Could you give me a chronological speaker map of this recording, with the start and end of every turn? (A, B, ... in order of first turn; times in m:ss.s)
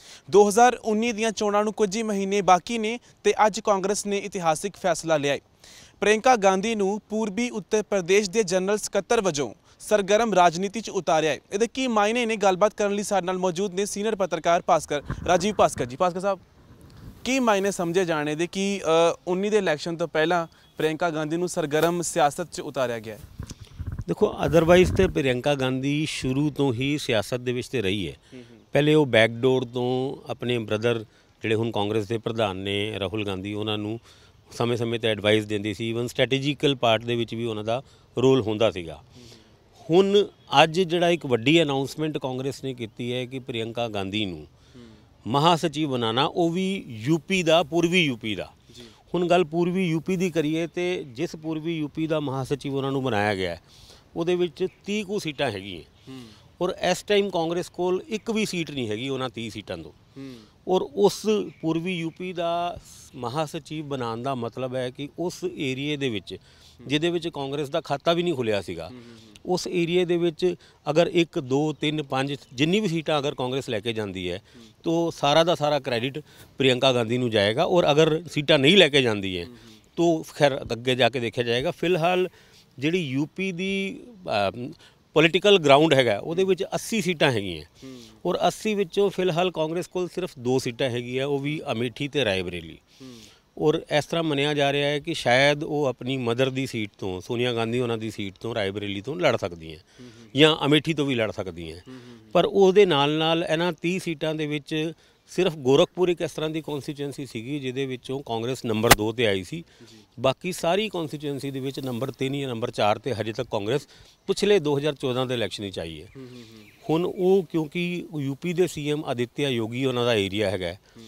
0:00.3-0:05.4 A
0:06.0-0:16.4 A
0:17.2-0:23.2 A
0:24.1-0:28.2 B
0:28.7-0:34.0 B
0:34.5-0:39.0 B
0:39.8-0:44.5 B
0:45.3-0:48.5 B
0:49.1-0:53.6 B
0:54.1-0:55.9 B
0:56.1-0:56.4 A
0:56.6-1:00.0 B
1:00.2-1:00.4 A
1:00.7-1:27.7 B
1:28.2-1:32.8 B
1:33.0-1:33.3 A
1:33.6-1:49.7 B
1:50.2-1:56.1 B
1:56.2-1:56.6 A
1:56.8-2:00.8 B